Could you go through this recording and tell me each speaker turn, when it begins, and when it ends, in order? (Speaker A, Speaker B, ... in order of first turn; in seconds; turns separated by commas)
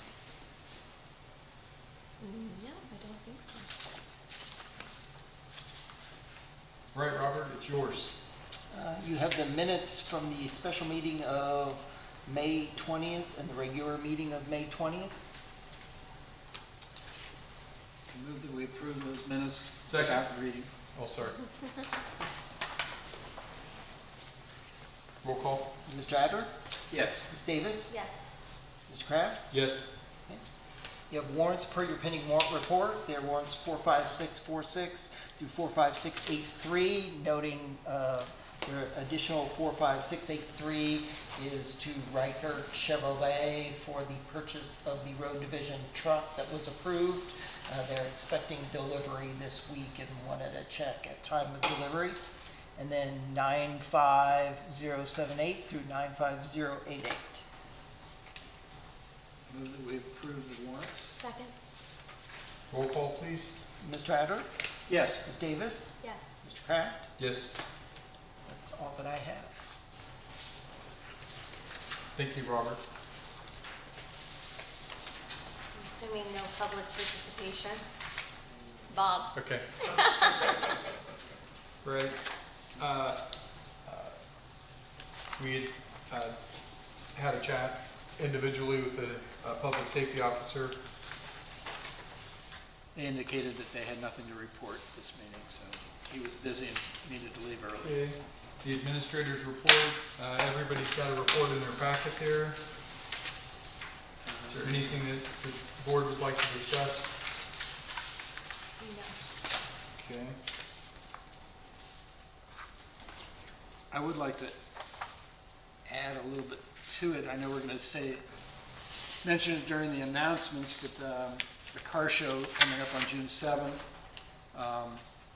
Speaker A: 2.2-3.7, Speaker B: 6.9-8.1, Speaker C: 8.7-15.1, Speaker D: 18.1-20.7, Speaker B: 19.9-20.3, Speaker B: 20.9-21.4, Speaker B: 25.2-25.7, Speaker C: 25.9-26.5, Speaker D: 26.9-27.3, Speaker C: 27.3-27.9, Speaker A: 27.9-28.3, Speaker C: 28.9-29.5, Speaker B: 29.5-29.9, Speaker C: 31.1-52.2, Speaker C: 52.8-57.4, Speaker D: 59.5-61.1, Speaker A: 61.1-61.5, Speaker B: 62.7-63.5, Speaker C: 63.8-64.5, Speaker D: 64.9-65.2, Speaker C: 65.2-67.1, Speaker A: 66.0-66.3, Speaker B: 67.2-67.5, Speaker C: 68.5-69.5, Speaker B: 72.2-72.8, Speaker A: 75.7-77.8, Speaker A: 78.9-79.3, Speaker B: 79.3-80.0, Speaker A: 79.9-80.4, Speaker B: 81.8-82.2, Speaker B: 82.8-84.2, Speaker B: 85.4-86.5, Speaker B: 87.0-90.8, Speaker D: 93.0-98.2, Speaker B: 97.8-102.6, Speaker D: 104.2-105.0, Speaker B: 104.5-107.2, Speaker A: 108.8-109.2, Speaker B: 110.0-110.4, Speaker D: 113.9-114.6, Speaker D: 115.9-118.2, Speaker D: 119.2-123.8, Speaker D: 124.5-125.0